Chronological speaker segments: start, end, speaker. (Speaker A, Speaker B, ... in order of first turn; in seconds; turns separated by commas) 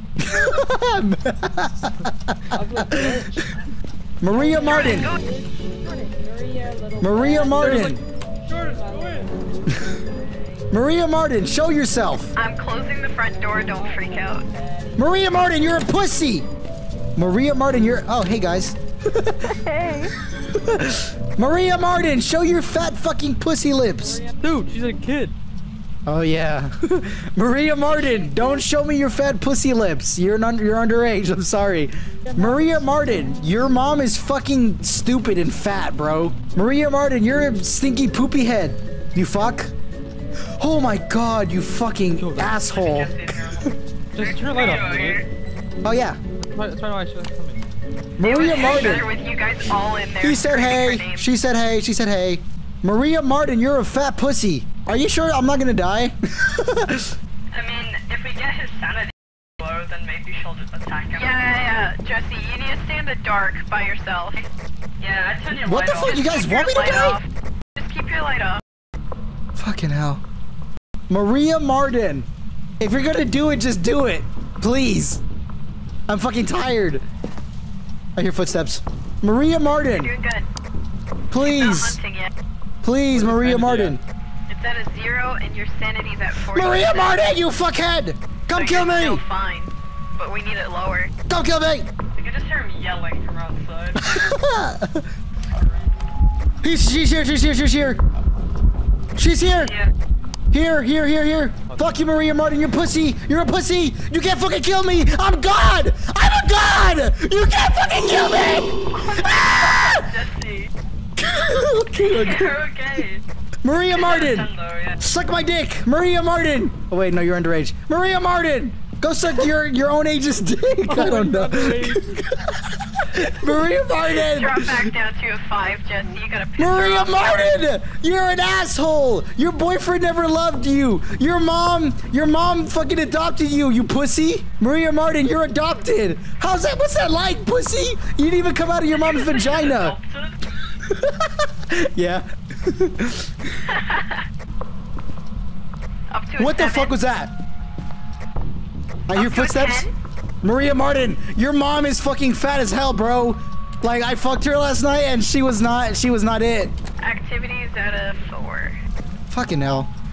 Speaker A: 0.2-3.2, Speaker B: 2.5-3.6, Speaker A: 4.2-5.1, Speaker B: 4.3-7.9, Speaker C: 4.5-5.2, Speaker A: 7.0-8.0, Speaker D: 7.5-9.3, Speaker B: 8.5-9.3, Speaker A: 10.7-12.3, Speaker C: 12.3-14.4, Speaker B: 13.3-15.0, Speaker A: 15.0-16.5, Speaker A: 17.1-19.6, Speaker D: 19.6-20.1, Speaker A: 20.3-24.2, Speaker B: 24.1-24.4, Speaker D: 24.4-25.4, Speaker A: 26.1-39.7, Speaker B: 32.3-32.9, Speaker A: 40.6-43.7, Speaker D: 42.2-42.5, Speaker E: 42.6-45.2, Speaker D: 44.1-45.2, Speaker A: 45.8-46.2, Speaker D: 46.4-47.6, Speaker A: 48.2-49.1, Speaker C: 48.2-51.3, Speaker E: 48.4-48.8, Speaker A: 50.2-57.1, Speaker E: 57.5-61.4, Speaker C: 61.1-64.4, Speaker E: 65.0-66.3, Speaker A: 65.6-67.2, Speaker C: 66.0-68.6, Speaker A: 69.5-70.2, Speaker A: 71.1-72.3, Speaker A: 72.8-75.2, Speaker A: 76.1-77.0, Speaker A: 78.1-80.1, Speaker C: 79.9-80.5, Speaker A: 81.3-82.0, Speaker C: 81.3-82.3, Speaker A: 82.8-84.0, Speaker D: 83.1-84.0, Speaker C: 84.5-87.3, Speaker A: 86.3-89.2, Speaker C: 88.5-91.1, Speaker A: 91.3-91.9, Speaker E: 92.2-94.4, Speaker A: 94.0-95.1, Speaker E: 95.4-95.9, Speaker A: 96.6-98.0, Speaker A: 99.2-99.8, Speaker E: 99.6-99.9, Speaker A: 100.5-110.1, Speaker E: 108.9-110.7, Speaker A: 111.2-112.5, Speaker E: 112.0-113.2, Speaker A: 113.6-124.9, Speaker E: 113.9-115.0, Speaker D: 120.9-122.1, Speaker C: 124.1-127.6, Speaker A: 126.6-140.0, Speaker E: 138.9-140.4, Speaker A: 140.8-143.6, Speaker C: 143.7-144.2, Speaker C: 146.1-146.9, Speaker A: 146.4-147.3, Speaker A: 149.1-149.9, Speaker C: 149.1-149.9, Speaker A: 150.4-156.7, Speaker C: 157.0-158.8, Speaker A: 159.3-159.9